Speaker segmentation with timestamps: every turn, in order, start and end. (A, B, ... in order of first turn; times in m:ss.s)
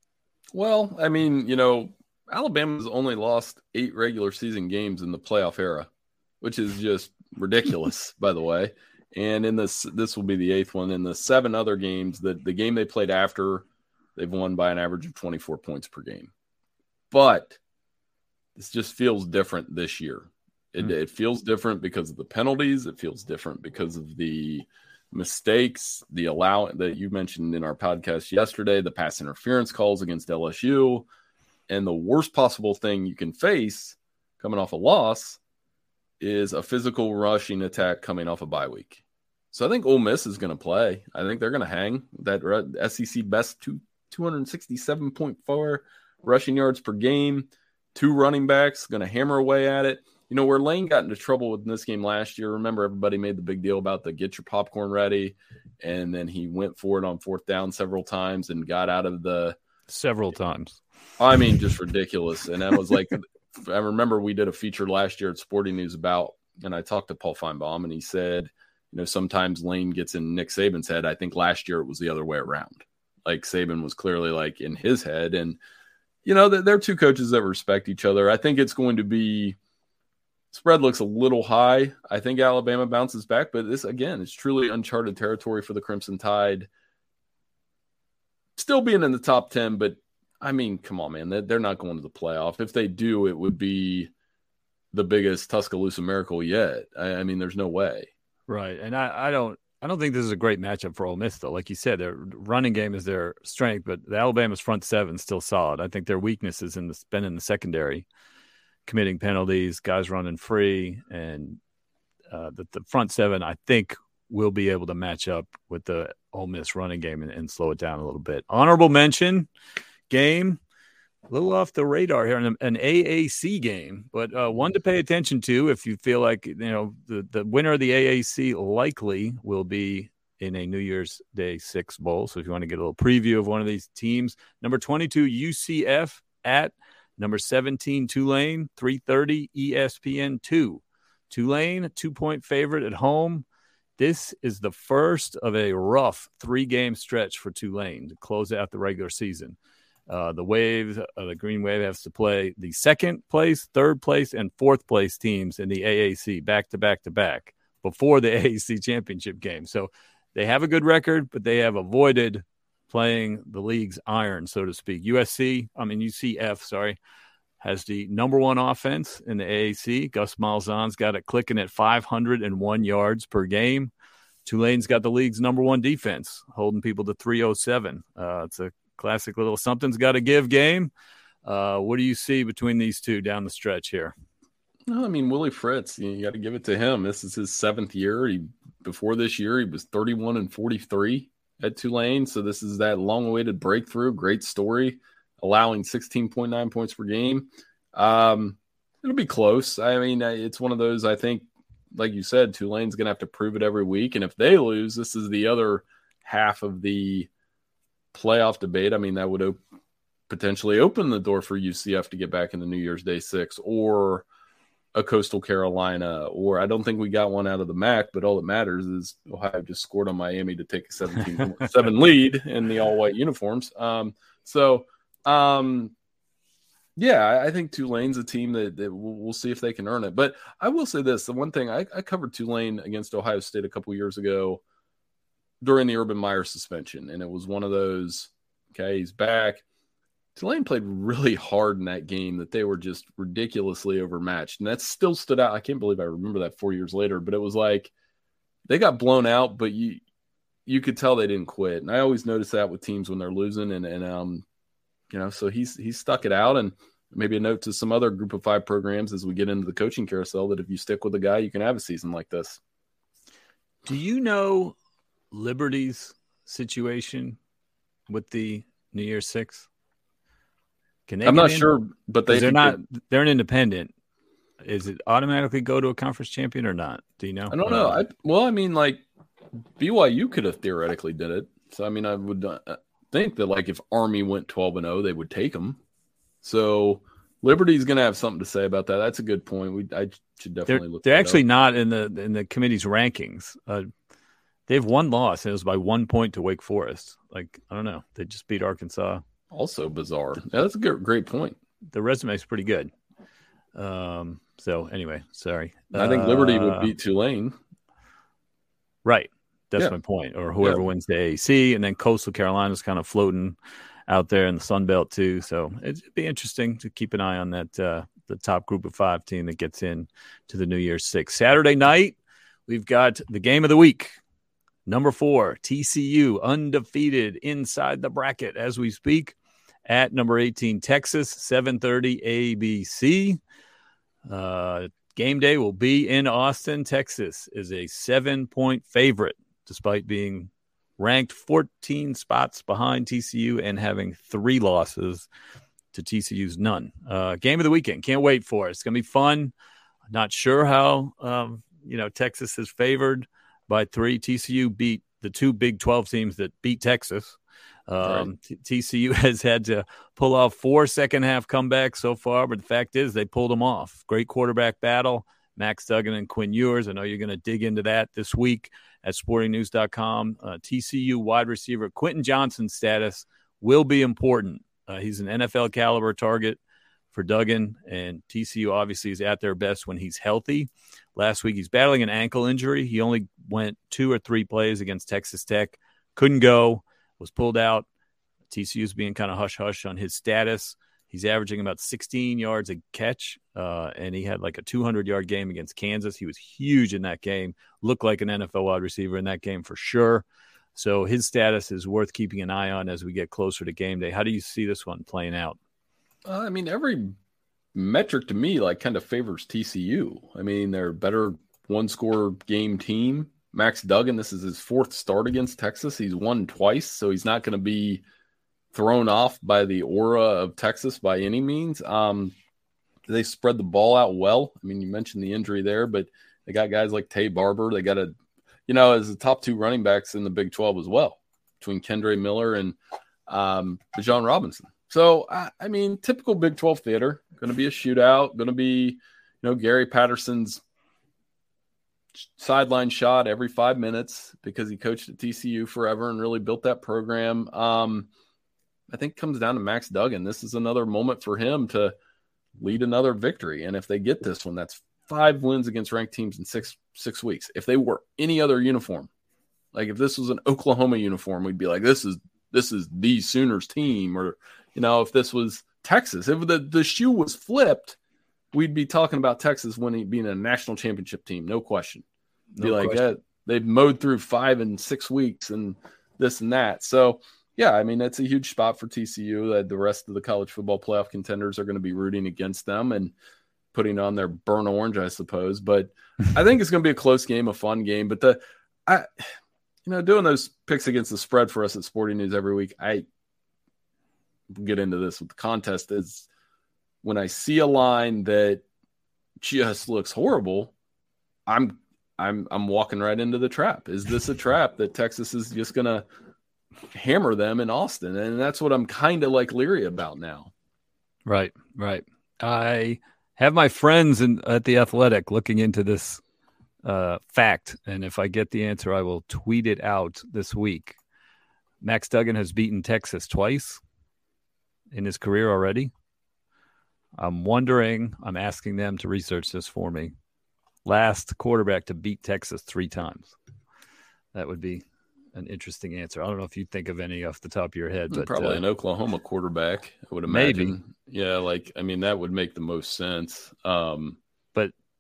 0:00.5-0:05.9 A
0:06.4-0:16.3 A
0:17.1-0:17.6 A
0:18.6-0:31.1 A
0:31.7-0:35.4 A
0:36.2-0:39.0 A
0:39.5-0:59.6 A
0:59.9-1:00.8 B
1:01.2-1:15.6 A
1:16.2-1:19.6 A
1:20.5-1:26.7 A
1:28.6-1:34.1 A
1:34.9-1:38.1 A
1:38.5-1:48.1 B
1:48.9-1:51.6 B
1:52.3-1:59.5 B
2:00.1-2:00.6 B
2:01.3-2:23.4 B
2:24.0-2:29.6 B
2:30.1-2:47.0 B
2:47.6-2:53.9 B
2:54.4-3:00.9 B
3:01.4-3:04.1 B
3:04.9-3:27.3 A
3:28.1-3:29.6 A
3:30.3-3:34.2 A
3:35.0-3:45.9 A
3:47.0-3:54.6 A
3:55.6-3:59.6 A
4:00.4-4:07.9 A
4:08.7-4:10.0 A
4:10.7-4:14.4 A
4:15.1-4:22.6 A
4:23.9-4:24.8 B
4:25.3-4:27.4 B
4:28.1-4:29.7 B
4:31.1-4:31.7 B
4:31.2-4:32.8 A
4:32.3-4:33.9 B
4:34.6-4:38.0 B
4:37.5-4:39.0 A
4:39.8-4:45.8 A
4:46.4-4:51.4 A
4:50.7-4:53.9 B
4:54.7-4:59.2 B
4:59.5-5:01.6 A
5:01.9-5:02.9 B
5:03.8-5:06.9 B
5:06.0-5:07.6 A
5:09.0-5:13.6 B
5:14.1-5:22.2 B
5:22.7-5:24.2 B
5:24.9-5:29.4 B
5:29.9-5:33.4 B
5:34.3-5:45.3 B
5:45.9-5:49.5 B
5:50.1-6:16.6 B
5:58.0-5:58.3 A
6:17.1-6:27.9 B
6:28.5-6:45.6 B
6:46.2-6:47.2 A
6:47.8-6:58.0 A
6:58.7-7:02.3 A
7:03.1-7:08.1 A
7:08.7-7:12.8 A
7:13.3-7:20.6 A
7:22.2-7:28.1 A
7:28.9-7:32.0 A
7:32.6-7:39.1 A
7:39.7-7:48.0 A
7:48.5-7:52.0 A
7:52.6-7:53.0 B
7:52.6-8:03.1 A
8:03.7-8:09.3 A
8:09.8-8:13.0 A
8:14.5-8:16.3 A
8:17.0-8:18.6 A
8:19.4-8:20.7 A
8:21.5-8:26.1 A
8:26.9-8:30.5 A
8:31.3-8:36.2 B
8:36.8-8:41.0 B
8:41.8-8:43.8 B
8:44.9-8:45.9 B
8:47.2-8:50.1 B
8:50.8-8:53.3 B
8:54.3-8:58.6 B
8:58.1-9:04.2 A
9:00.3-9:00.7 B